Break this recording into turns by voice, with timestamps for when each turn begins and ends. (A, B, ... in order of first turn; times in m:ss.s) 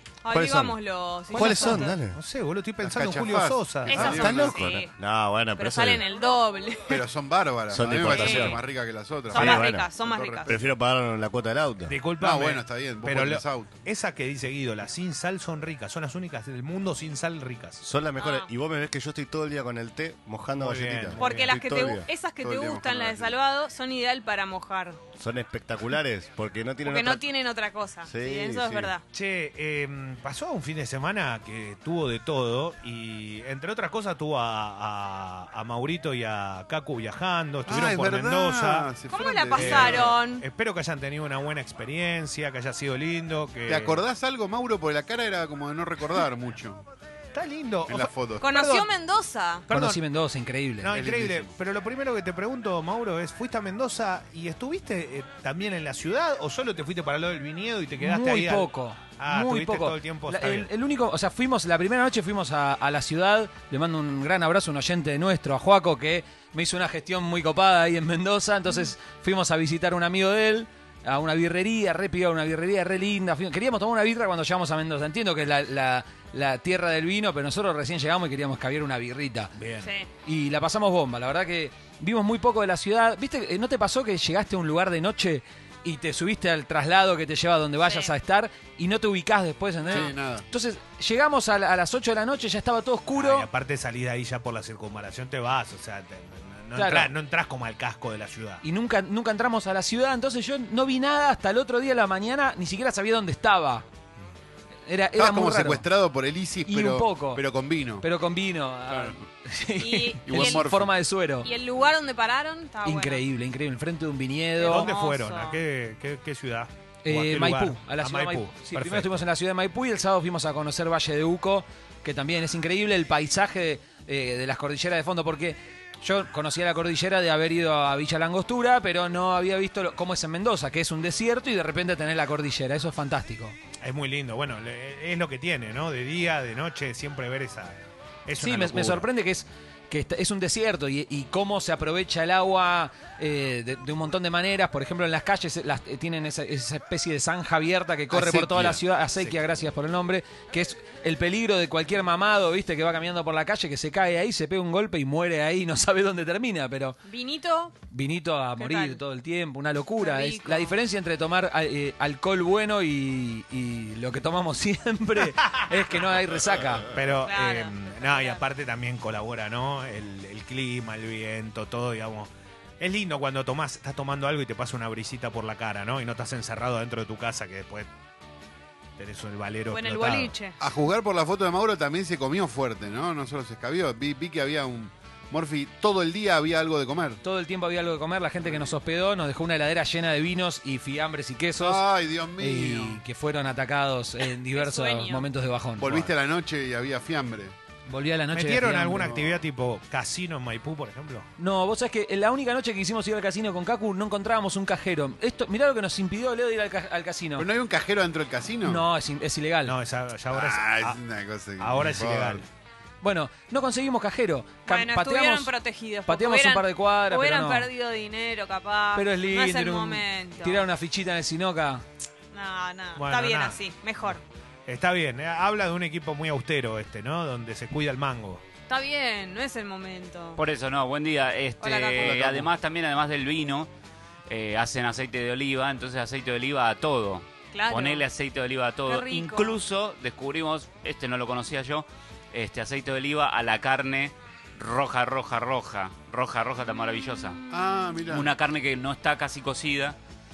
0:00.2-0:01.9 A
0:00.3-0:00.8 B
0:01.3-0:02.2 B
0:01.3-0:04.3 C
0:02.8-0:04.6 D
0:03.9-0:04.9 A
0:03.9-0:06.0 B
0:05.6-0:07.0 A
0:06.9-0:10.7 D
0:07.7-0:08.6 B
0:08.1-0:08.6 A
0:08.2-0:08.5 C
0:09.3-0:10.6 A
0:09.3-0:09.9 B
0:10.4-0:12.0 B
0:11.8-0:17.8 C
0:12.2-0:13.8 D
0:17.8-0:22.1 B
0:18.2-0:18.5 A
0:20.6-0:21.6 C
0:21.2-0:25.0 A
0:22.4-0:23.3 D
0:25.2-0:27.2 B
0:26.8-0:29.0 A
0:28.0-0:28.9 B
0:29.1-0:38.9 C
0:37.6-0:40.2 D
0:39.1-0:40.4 A
0:39.5-0:44.0 C
0:43.7-0:46.8 D
0:47.3-0:48.9 C
0:47.9-0:48.5 D
0:48.4-0:49.7 A
0:49.7-0:50.0 C
0:49.7-0:50.9 E
0:50.8-1:00.7 C
0:50.9-0:51.5 D
0:58.0-1:19.5 E
1:19.5-1:19.9 C
1:19.8-1:20.1 A
1:20.2-1:33.5 E
1:27.8-1:28.2 A
1:29.9-1:30.5 D
1:33.1-1:38.6 C
1:36.7-1:37.1 E
1:38.6-1:43.8 E
1:44.8-1:45.8 E
1:45.1-1:48.1 D
1:46.6-1:47.4 E
1:48.0-1:51.5 E
1:48.9-1:49.2 D
1:49.8-1:50.7 A
1:50.2-1:50.9 D
1:51.4-1:53.2 A
1:52.8-1:54.8 E
1:54.5-1:55.6 A
1:54.6-1:59.3 C
1:57.0-2:13.6 E
2:13.8-2:19.1 C
2:18.4-2:37.0 E
2:28.1-2:29.5 C
2:37.0-2:37.8 A
2:37.9-2:46.9 E
2:38.5-2:39.0 A
2:40.0-2:40.8 A
2:46.8-2:57.9 C
2:47.1-2:48.5 A
2:59.0-3:00.3 C
2:59.7-3:00.6 A
3:00.6-3:07.2 D
3:07.2-3:11.8 E
3:08.4-3:08.8 D
3:11.5-3:13.0 D
3:12.4-3:16.1 E
3:14.5-3:15.3 A
3:15.7-3:17.5 D
3:17.8-3:19.0 E
3:18.3-3:21.3 C
3:19.0-3:19.4 D
3:21.4-3:27.5 E
3:27.4-3:28.9 D
3:28.6-3:29.8 E
3:29.6-3:31.0 C
3:30.3-3:32.4 D
3:31.6-3:32.4 C
3:33.0-3:35.5 E
3:34.6-3:40.7 A
3:36.1-3:37.7 E
3:38.9-3:41.8 E
3:42.3-3:44.2 A
3:43.0-3:43.6 C
3:44.7-3:48.4 C
3:48.7-3:50.4 A
3:50.4-3:53.7 F
3:51.6-3:52.3 A
3:52.0-3:52.5 B
3:54.3-4:07.4 F
3:57.5-3:58.0 A
3:58.8-3:59.6 A
4:07.5-4:08.3 D
4:08.0-4:10.0 F